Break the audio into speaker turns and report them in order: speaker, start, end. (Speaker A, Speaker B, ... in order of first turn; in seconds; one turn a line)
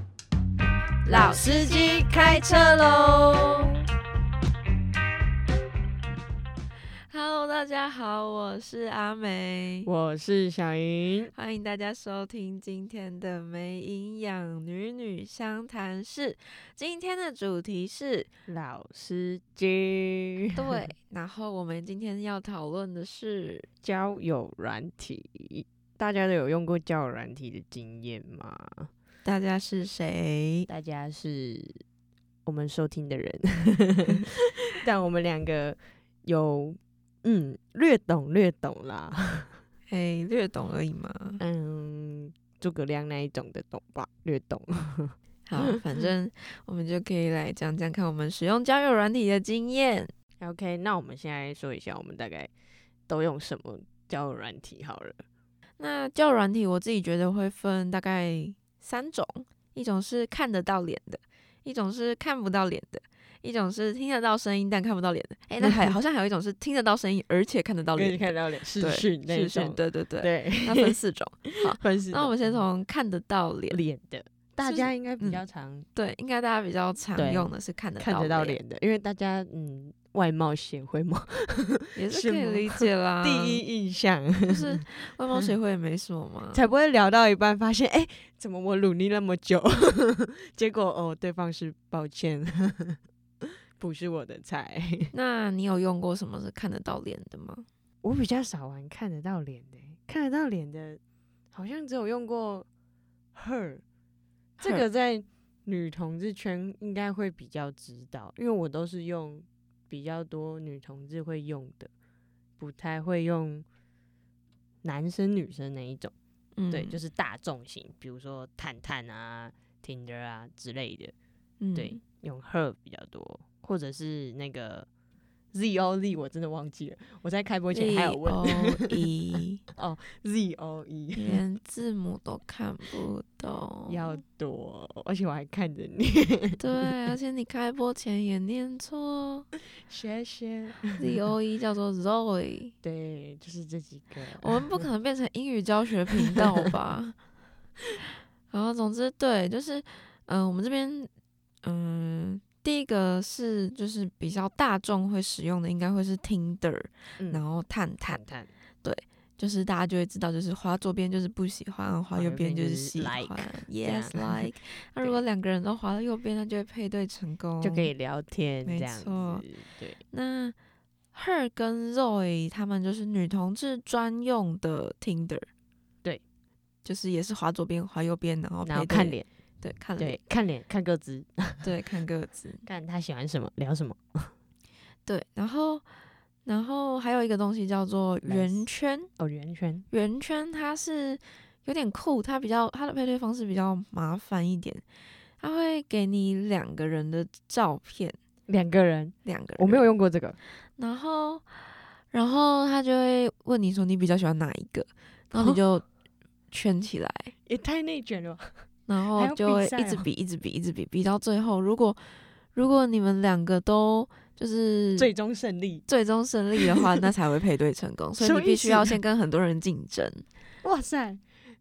Speaker A: 1.1-3.6
Speaker B: 1.1-3.7
Speaker B: 7.1-9.9
Speaker A: 9.8-11.3
Speaker B: 11.3-18.3
Speaker A: 18.5-20.8
Speaker B: 20.6-23.7
Speaker A: 23.8-28.9
Speaker B: 29.2-30.7
Speaker A: 30.7-31.8
Speaker A: 32.5-39.6
Speaker B: 39.9-41.4
Speaker A: 41.4-46.0
Speaker B: 45.5-50.1
Speaker A: 50.4-52.5
Speaker A: 53.1-55.2
Speaker B: 55.8-68.3
Speaker A: 65.6-65.9
Speaker A: 68.0-70.9
Speaker B: 68.8-73.8
Speaker A: 71.5-72.6
Speaker A: 73.7-75.8
Speaker B: 74.6-75.4
Speaker B: 75.9-78.6
Speaker A: 77.2-84.8
Speaker B: 82.0-83.6
Speaker B: 84.5-86.6
Speaker A: 86.5-93.0
Speaker A: 93.8-95.1
Speaker B: 95.1-97.7
Speaker A: 98.0-101.0
Speaker A: 101.5-102.7
Speaker A: 103.3-103.8
Speaker A: 104.6-111.9
Speaker A: 112.6-113.7
Speaker A: 114.8-116.1
Speaker B: 116.6-116.9
Speaker A: 116.7-121.1
Speaker B: 121.6-122.0
Speaker A: 121.7-124.9
Speaker A: 125.5-129.1
Speaker B: 127.7-129.6
Speaker A: 129.8-131.4
Speaker B: 131.2-134.2
Speaker A: 133.9-137.1
Speaker B: 136.6-139.5
Speaker A: 139.9-141.2
Speaker B: 141.0-142.7
Speaker A: 142.8-144.8
Speaker B: 144.4-147.2
Speaker A: 146.1-146.7
Speaker B: 148.5-151.1
Speaker B: 151.6-158.2
Speaker A: 158.1-158.5
Speaker B: 158.8-167.9
Speaker A: 162.1-165.2
Speaker A: 167.6-170.0
Speaker B: 168.7-169.4
Speaker B: 170.1-170.5
Speaker B: 171.1-175.5
Speaker B: 176.8-180.2
Speaker A: 178.6-179.3
Speaker A: 180.0-181.7
Speaker B: 181.6-182.6
Speaker A: 182.7-184.3
Speaker B: 185.1-185.8
Speaker B: 186.4-189.1
Speaker A: 188.2-188.6
Speaker A: 189.2-189.8
Speaker B: 189.9-194.8
Speaker B: 195.4-198.2
Speaker A: 198.5-200.4
Speaker B: 199.2-199.8
Speaker B: 200.8-201.5
Speaker B: 202.1-205.8
Speaker B: 206.5-207.3
Speaker A: 207.4-208.5
Speaker B: 208.9-212.0
Speaker A: 209.1-210.1
Speaker B: 212.5-215.1
Speaker A: 215.0-215.8
Speaker B: 215.9-220.2
Speaker A: 216.6-217.1
Speaker A: 218.2-219.0
Speaker A: 220.6-221.2